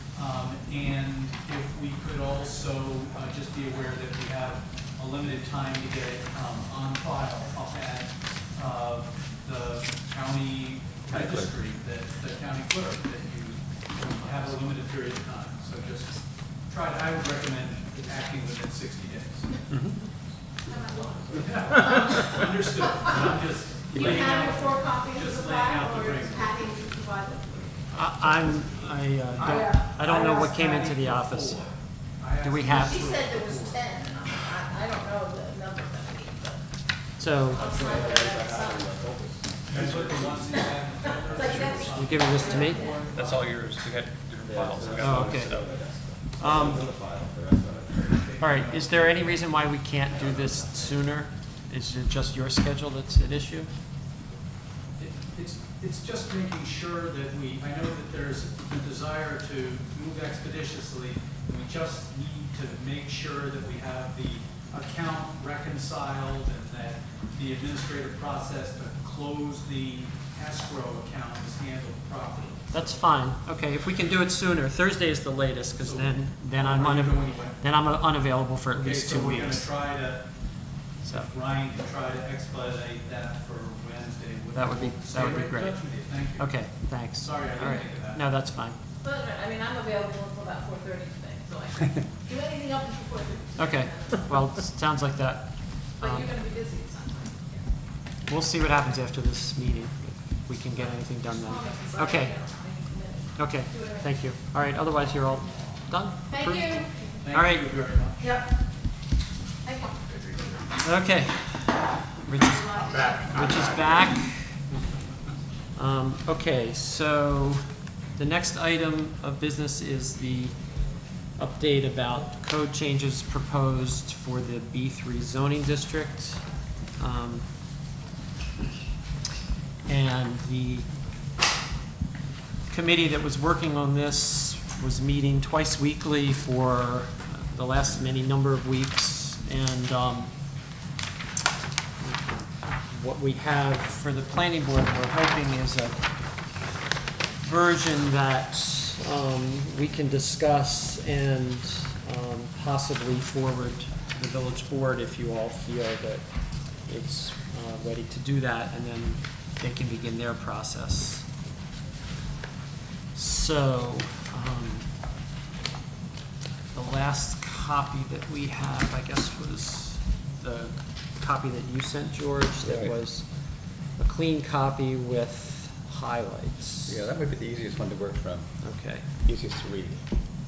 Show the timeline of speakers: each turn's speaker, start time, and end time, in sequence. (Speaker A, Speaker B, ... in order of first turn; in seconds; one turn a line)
Speaker A: 0.1-19.7
Speaker B: 11.1-11.5
Speaker C: 20.6-22.2
Speaker D: 20.9-21.8
Speaker A: 21.3-26.6
Speaker C: 23.9-27.8
Speaker E: 24.0-24.2
Speaker E: 27.9-31.7
Speaker A: 29.3-33.9
Speaker C: 29.4-30.9
Speaker E: 32.4-33.0
Speaker C: 32.6-36.6
Speaker E: 37.2-37.8
Speaker C: 37.5-38.9
Speaker D: 37.5-40.3
Speaker A: 39.7-43.5
Speaker B: 39.8-40.5
Speaker C: 40.5-43.2
Speaker E: 41.9-42.9
Speaker B: 43.1-45.7
Speaker D: 44.5-48.3
Speaker E: 45.0-45.6
Speaker E: 46.4-46.9
Speaker A: 48.1-49.5
Speaker E: 48.4-53.7
Speaker D: 50.1-51.0
Speaker A: 55.0-73.0
Speaker E: 72.7-79.7
Speaker A: 75.7-77.6
Speaker A: 78.7-80.3
Speaker E: 81.0-81.3
Speaker A: 81.1-86.6
Speaker E: 84.5-85.8
Speaker E: 86.3-88.8
Speaker A: 87.2-88.2
Speaker C: 89.0-94.3
Speaker E: 93.6-96.3
Speaker C: 96.0-97.7
Speaker E: 98.3-102.4
Speaker C: 100.7-104.2
Speaker E: 103.3-107.7
Speaker C: 106.3-107.3
Speaker A: 107.2-108.3
Speaker C: 108.2-108.5
Speaker C: 109.6-110.2
Speaker E: 110.8-114.6
Speaker C: 112.4-113.8
Speaker E: 115.7-120.6
Speaker E: 121.3-126.4
Speaker E: 127.0-127.5
Speaker E: 129.9-130.9
Speaker E: 132.7-140.3
Speaker E: 142.0-146.1
Speaker E: 147.4-156.2
Speaker E: 156.8-161.3
Speaker E: 163.1-164.9
Speaker E: 166.7-177.1
Speaker D: 176.8-178.5
Speaker E: 178.6-179.1
Speaker D: 179.2-180.0